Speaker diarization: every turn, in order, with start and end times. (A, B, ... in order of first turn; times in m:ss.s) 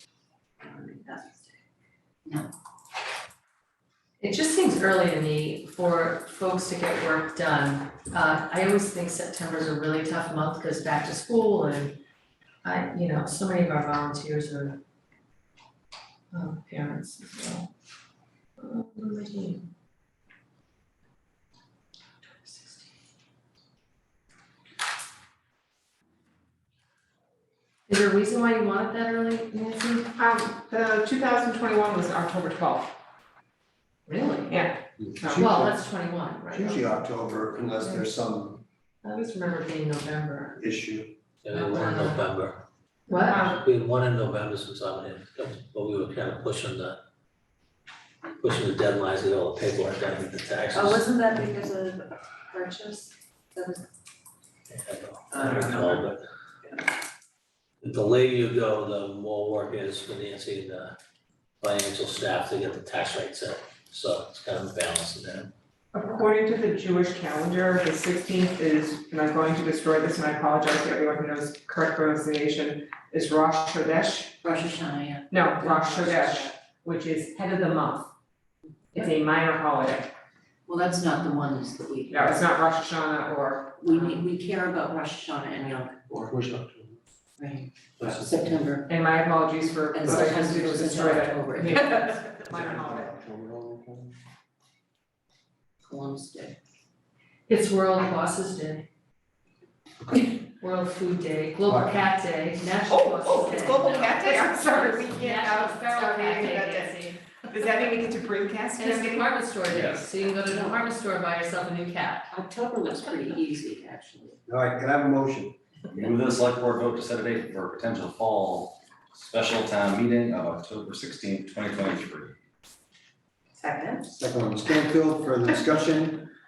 0:00.7-0:01.4 A
0:04.2-0:12.0 B
0:12.6-0:14.8 B
0:16.3-0:17.7 B
0:18.6-0:19.6 B
0:22.4-0:22.7 B
0:27.9-0:30.1 B
0:30.2-0:32.9 C
0:34.1-0:34.6 B
0:34.5-0:35.4 C
0:35.2-0:35.8 D
0:35.3-0:37.0 B
0:36.5-0:38.6 D
0:39.0-0:40.6 B
0:40.6-0:41.1 D
0:41.4-0:42.6 E
0:41.5-0:42.2 B
0:43.1-0:43.5 B
0:43.2-0:43.6 C
0:43.4-0:47.0 E
0:48.4-0:51.1 E
0:50.7-0:52.0 F
0:52.5-0:53.8 F
0:54.7-0:56.2 E
0:55.3-0:55.9 F
0:57.8-1:01.0 E
1:01.6-1:05.5 E
1:05.9-1:14.4 C
1:14.4-1:16.5 A
1:15.3-1:18.1 C
1:18.9-1:20.1 C
1:20.7-1:22.3 A
1:22.1-1:24.2 C
1:23.8-1:26.4 A
1:26.4-1:26.9 D
1:27.4-1:28.9 A
1:28.8-1:33.1 C
1:29.9-1:32.2 A
1:32.5-1:34.1 D
1:35.8-1:36.6 A
1:37.5-1:38.8 B
1:40.2-1:47.3 B
1:41.7-1:42.0 D
1:43.2-1:47.0 C
1:47.5-1:49.3 C
1:48.8-1:52.3 B
1:49.6-1:50.0 G
1:52.3-1:54.4 A
1:54.5-1:55.6 D
1:55.9-2:02.3 G
2:03.6-2:04.0 A
2:04.1-2:06.3 D